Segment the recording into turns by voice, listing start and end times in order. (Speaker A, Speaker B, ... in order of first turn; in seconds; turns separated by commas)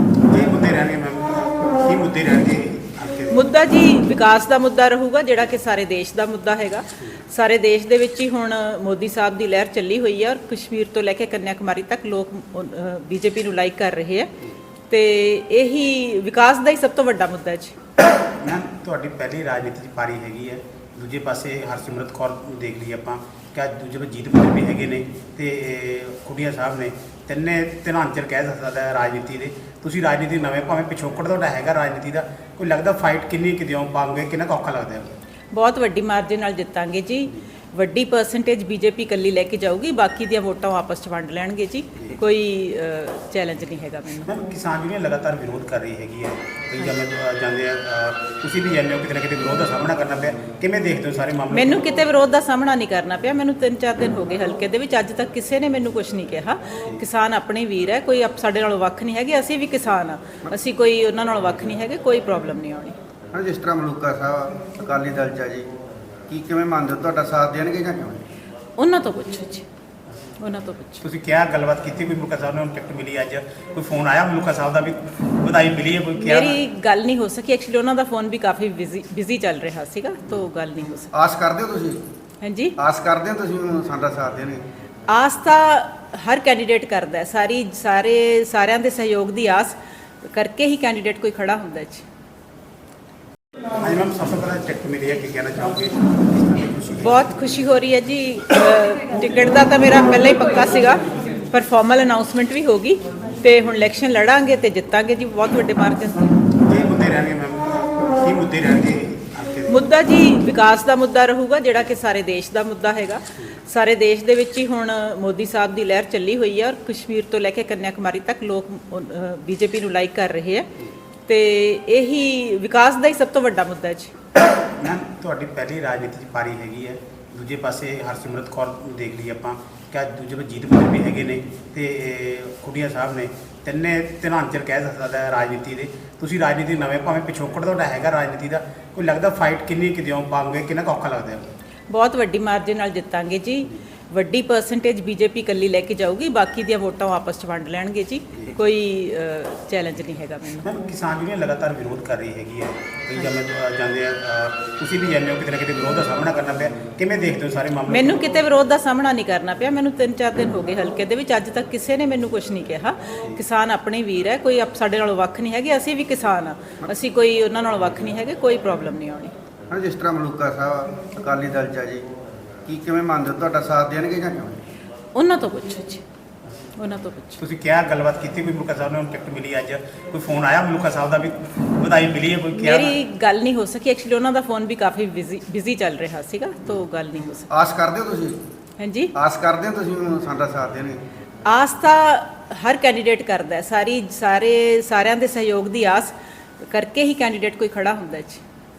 Speaker A: 0.2-3.4, Speaker B: 3.3-14.3, Speaker B: 14.9-17.8, Speaker A: 18.4-35.1, Speaker B: 35.5-44.3, Speaker A: 44.2-51.9, Speaker B: 51.5-62.9, Speaker C: 63.3-65.7, Speaker C: 66.3-68.2, Speaker B: 68.8-69.7, Speaker B: 70.4-71.0, Speaker A: 71.0-76.6, Speaker B: 76.2-81.1, Speaker C: 81.1-82.0, Speaker B: 82.4-82.7, Speaker C: 82.8-84.6, Speaker B: 85.1-92.0, Speaker A: 93.7-97.2, Speaker B: 97.0-106.3, Speaker A: 106.6-109.8, Speaker B: 109.7-120.7, Speaker B: 121.3-124.1, Speaker A: 124.8-141.5, Speaker B: 141.9-150.7, Speaker A: 150.6-158.2, Speaker B: 157.9-169.3, Speaker C: 169.7-172.1, Speaker C: 172.7-174.6, Speaker B: 175.1-176.0, Speaker B: 176.8-177.4, Speaker A: 177.4-182.9, Speaker B: 182.6-187.5, Speaker C: 187.5-188.4, Speaker B: 188.8-189.1, Speaker C: 189.1-191.0, Speaker B: 191.4-198.4